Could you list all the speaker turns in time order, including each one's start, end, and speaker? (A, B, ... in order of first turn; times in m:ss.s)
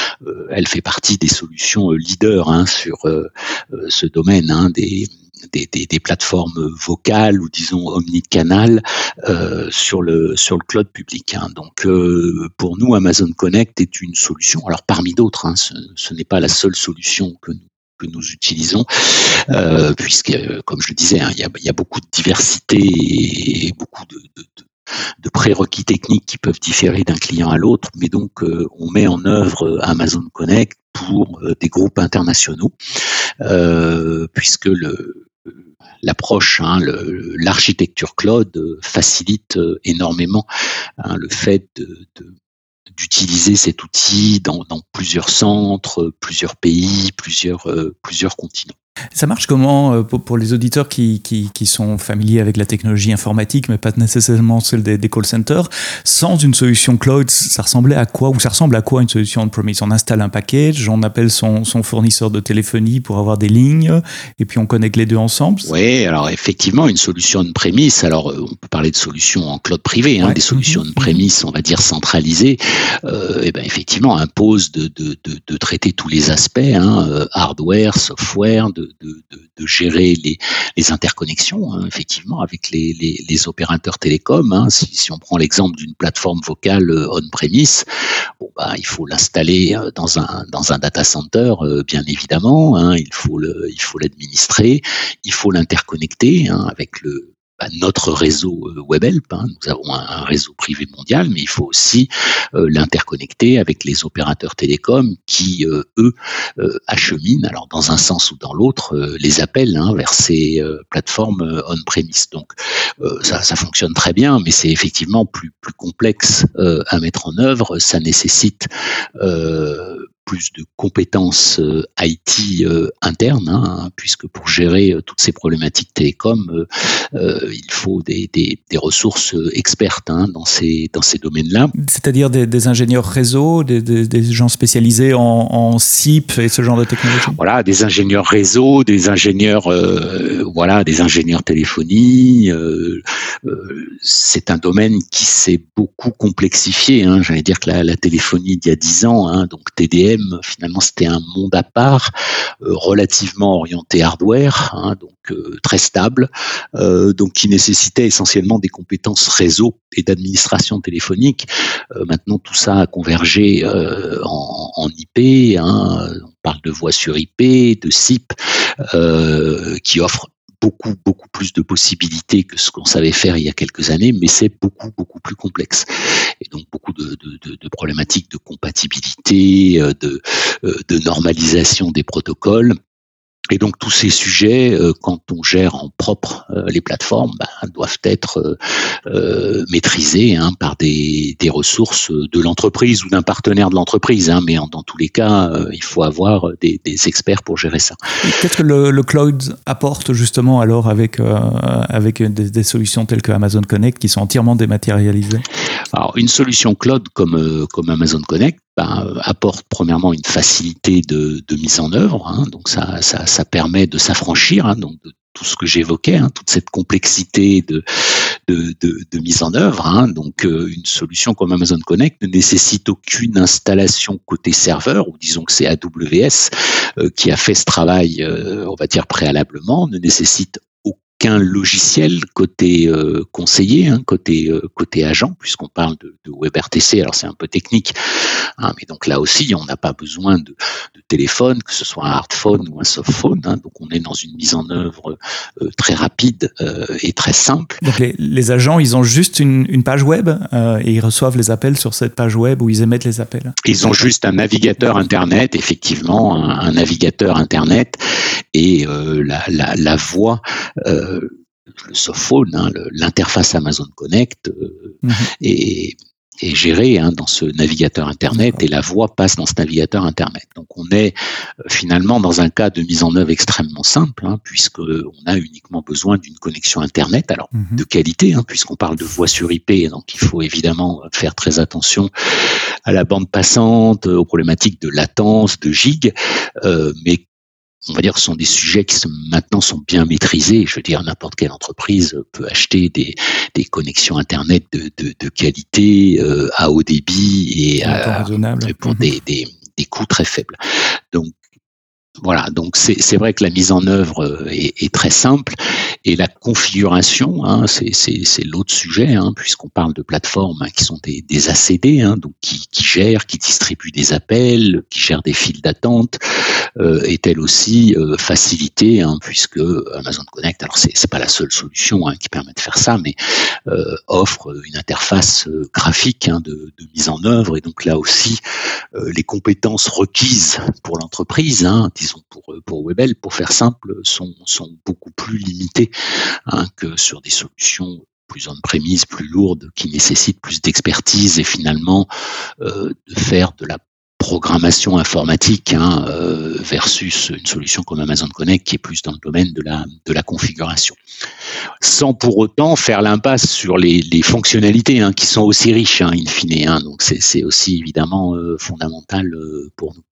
0:00.2-0:24.6 A
0:25.2-0:32.7 A
0:33.4-0:40.4 A
0:41.0-0:42.3 A
0:42.9-0:48.7 A
0:49.2-1:05.7 B
1:05.6-1:27.8 A
1:10.2-1:11.2 B
1:28.4-2:11.7 A
2:11.8-2:17.4 B
2:17.3-2:32.1 A
2:32.6-3:02.7 A
3:03.5-3:18.0 A
3:18.2-3:25.4 B
3:25.9-3:37.8 A
3:38.5-3:57.9 A
3:58.6-4:07.8 A
4:07.8-4:13.6 B
4:13.6-4:18.0 A
4:18.5-4:42.1 A
4:25.0-4:25.3 B
4:28.3-4:28.6 B
4:37.5-4:37.8 B
4:42.8-4:47.2 A
4:47.9-5:00.6 A
4:57.8-4:59.1 B
5:02.2-5:16.2 A
5:16.8-5:28.4 A
5:28.9-5:35.9 A
5:36.5-5:42.1 A
5:42.6-5:51.0 A
5:51.8-6:00.0 A